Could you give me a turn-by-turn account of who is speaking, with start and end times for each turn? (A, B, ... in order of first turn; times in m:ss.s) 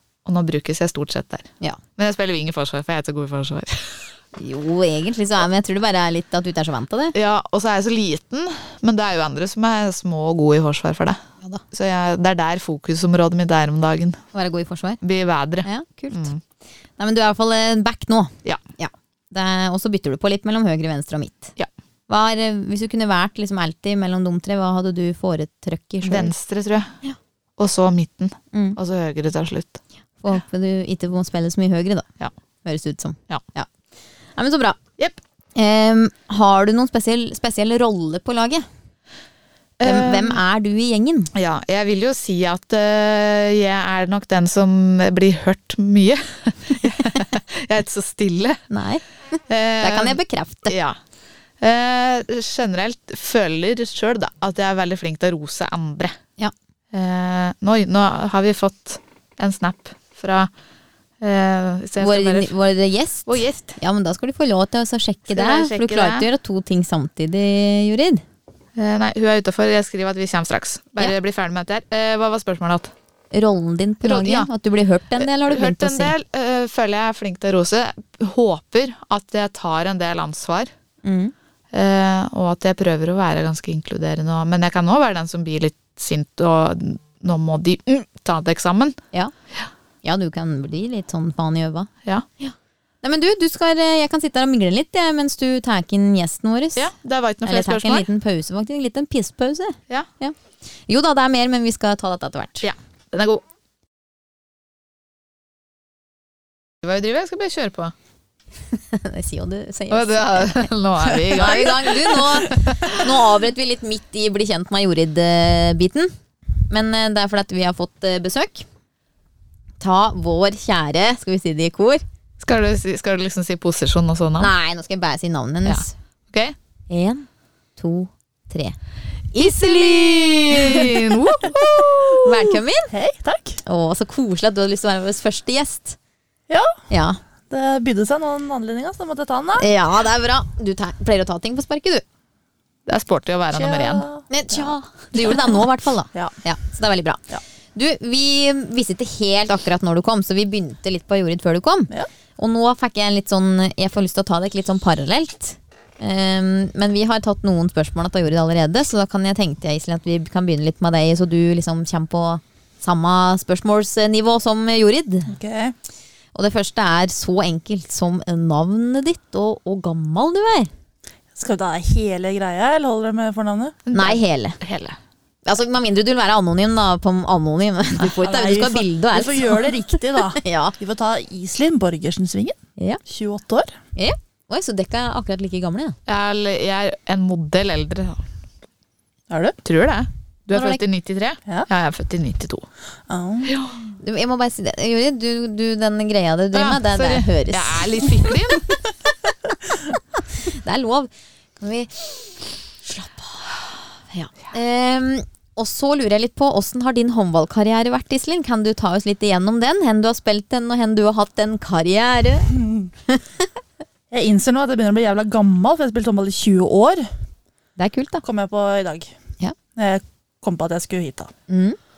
0:00.2-0:04.1 A
0:04.4-0:07.2 B
0:07.1-0:14.2 A
0:14.3-0:15.0 B
0:15.0-0:16.4 A
0:15.6-0:16.3 B
0:17.0-0:21.6 B
0:22.1-0:26.3 B
0:26.0-0:27.0 A
0:27.6-0:29.8 A
0:28.5-0:28.8 B
0:30.2-0:32.1 B
0:32.6-0:33.7 B
0:34.4-0:34.8 B
0:35.6-0:38.7 B
0:39.8-0:40.4 A
0:39.8-0:41.3 B
0:41.3-0:48.6 A
0:48.7-0:50.8 B
0:49.5-0:51.0 A
0:51.6-0:56.2 A
0:56.9-1:00.5 A
1:01.2-1:02.5 A
1:02.0-1:08.2 B
1:03.3-1:03.8 A
1:05.3-1:06.3 A
1:08.8-1:12.9 A
1:13.3-1:16.1 B
1:14.0-1:14.5 A
1:15.2-1:20.7 A
1:21.0-1:21.3 B
1:21.7-1:29.0 A
1:30.0-1:31.9 B
1:32.4-1:36.9 B
1:36.8-1:38.1 A
1:37.4-1:40.4 B
1:40.9-1:42.7 B
1:42.6-1:43.4 A
1:46.8-1:47.9 A
1:48.7-1:50.7 B
1:49.9-1:53.0 A
1:51.2-1:56.1 B
1:56.7-1:58.7 B
1:59.8-2:02.0 B
2:02.4-2:04.5 A
2:04.4-2:05.9 B
2:05.6-2:06.6 A
2:06.9-2:07.3 B
2:07.8-2:08.8 B
2:09.3-2:11.0 B
2:09.4-2:12.4 A
2:11.9-2:12.9 B
2:12.9-2:13.6 C
2:13.6-2:16.0 B
2:16.5-2:16.8 C
2:16.9-2:17.2 B
2:17.5-2:19.7 C
2:19.6-2:22.0 B
2:22.9-2:24.1 A
2:23.5-2:24.7 C
2:24.3-2:27.2 B
2:27.8-2:45.3 B
2:45.3-2:45.8 C
2:46.4-2:50.7 B
2:51.4-2:53.8 C
2:53.9-2:55.0 A
2:53.9-2:54.6 B
2:55.5-3:00.7 B
2:58.0-3:03.8 C
3:04.0-3:06.0 B
3:06.1-3:08.2 A
3:09.3-3:09.6 C
3:09.6-3:12.7 A
3:10.5-3:10.8 B
3:13.1-3:13.6 C
3:13.4-3:13.8 A
3:14.0-3:18.3 B
3:16.5-3:18.6 A
3:20.2-3:22.3 B
3:22.8-3:32.5 B
3:32.5-3:32.9 C
3:33.1-3:33.5 B
3:34.1-3:37.1 C
3:37.8-3:38.2 B
3:38.2-3:39.1 C
3:39.8-3:41.3 C
3:41.5-3:41.8 B